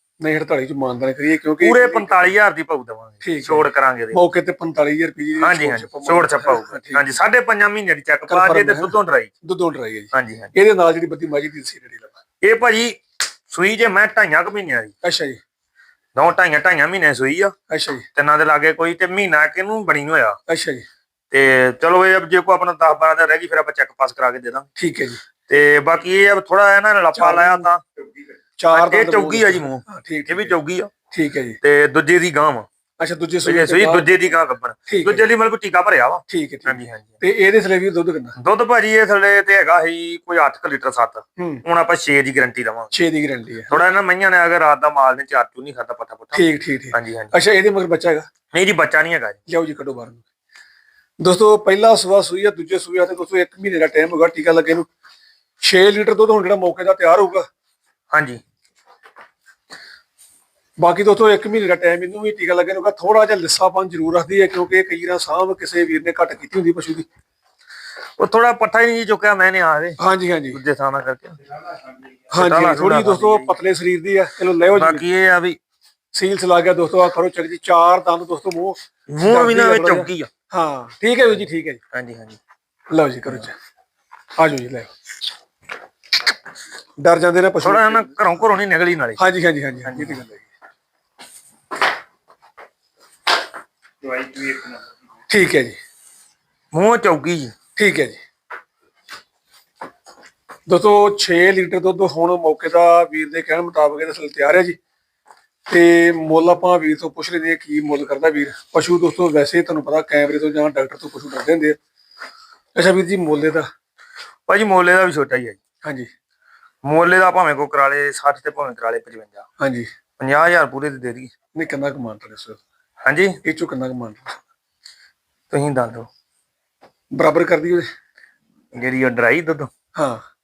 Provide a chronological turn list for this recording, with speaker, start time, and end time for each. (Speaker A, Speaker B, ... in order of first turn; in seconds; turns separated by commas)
Speaker A: 0.2-2.3, Speaker B: 1.6-4.2, Speaker A: 3.2-7.1, Speaker B: 5.4-9.3, Speaker A: 8.3-12.2, Speaker B: 10.1-10.5, Speaker B: 12.4-14.9, Speaker A: 15.0-15.4, Speaker B: 16.1-17.5, Speaker A: 17.7-18.1, Speaker B: 18.1-20.4, Speaker A: 20.5-20.9, Speaker B: 21.3-24.7, Speaker A: 24.8-25.2, Speaker B: 25.5-27.8, Speaker A: 27.1-27.7, Speaker A: 28.6-30.6, Speaker B: 28.7-30.9, Speaker A: 31.1-31.6, Speaker B: 31.6-32.7, Speaker A: 33.0-34.2, Speaker B: 33.4-37.1, Speaker A: 34.9-35.3, Speaker A: 36.3-38.4, Speaker B: 38.4-42.9, Speaker A: 41.4-41.6, Speaker A: 42.9-43.8, Speaker B: 43.7-47.3, Speaker A: 46.3-48.3, Speaker B: 48.5-49.4, Speaker A: 49.5-50.2, Speaker A: 51.2-54.9, Speaker A: 55.6-57.5, Speaker B: 58.1-58.4, Speaker A: 60.8-67.1, Speaker B: 68.2-70.0, Speaker A: 70.0-70.6, Speaker B: 70.5-71.4, Speaker B: 72.3-73.5, Speaker A: 72.3-75.0, Speaker B: 74.7-75.6, Speaker A: 76.2-81.8, Speaker B: 79.1-80.3, Speaker B: 81.9-82.4, Speaker A: 82.9-83.6, Speaker A: 84.4-84.9, Speaker A: 87.0-88.1, Speaker B: 87.6-89.2, Speaker A: 89.2-90.5, Speaker B: 89.9-90.2, Speaker B: 94.3-94.6, Speaker A: 95.3-95.8, Speaker B: 96.7-97.5, Speaker A: 97.8-98.2, Speaker A: 100.7-104.8, Speaker A: 105.7-111.8, Speaker A: 112.8-113.7, Speaker B: 114.5-115.6, Speaker A: 115.8-116.1, Speaker B: 116.8-119.5, Speaker A: 119.6-119.9, Speaker B: 120.2-121.3, Speaker A: 121.5-122.6, Speaker B: 123.0-123.4, Speaker A: 123.4-124.4, Speaker B: 125.5-126.1, Speaker A: 127.1-127.9, Speaker B: 128.7-129.7, Speaker A: 129.9-130.2